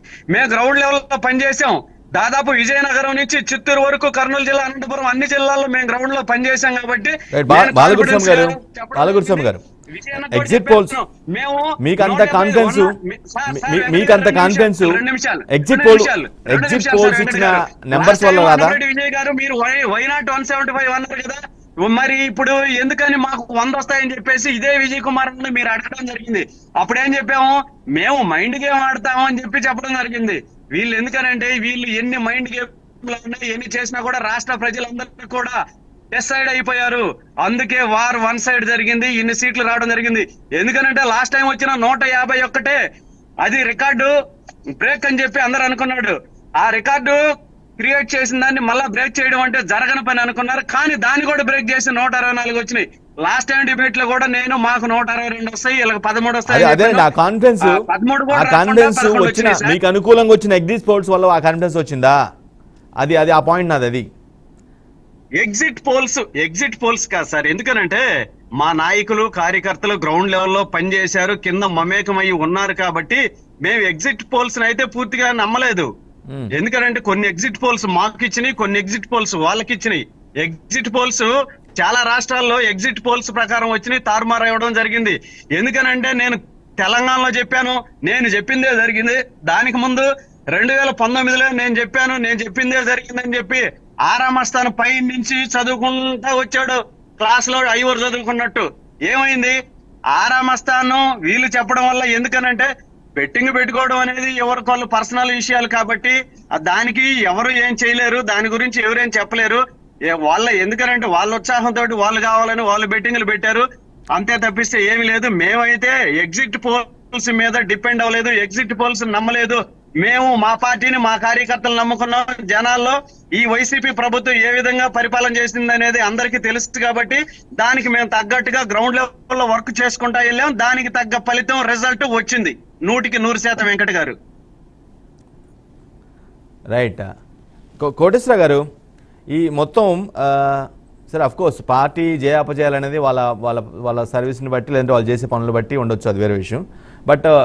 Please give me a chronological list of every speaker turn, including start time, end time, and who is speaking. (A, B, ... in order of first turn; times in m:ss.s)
0:00.3-0:35.6 A
0:07.3-0:09.6 B
0:10.3-0:11.0 B
0:11.8-0:12.9 B
0:13.5-0:18.8 B
0:36.1-0:42.8 A
0:43.4-0:44.1 A
0:44.8-0:47.2 A
0:47.8-0:59.8 A
0:56.5-1:02.2 B
1:03.0-1:04.1 B
1:05.4-1:08.0 A
1:08.6-1:15.9 A
1:16.6-1:39.6 A
1:40.1-2:14.2 A
2:16.7-2:17.0 B
2:17.8-2:18.6 B
2:19.3-2:27.3 B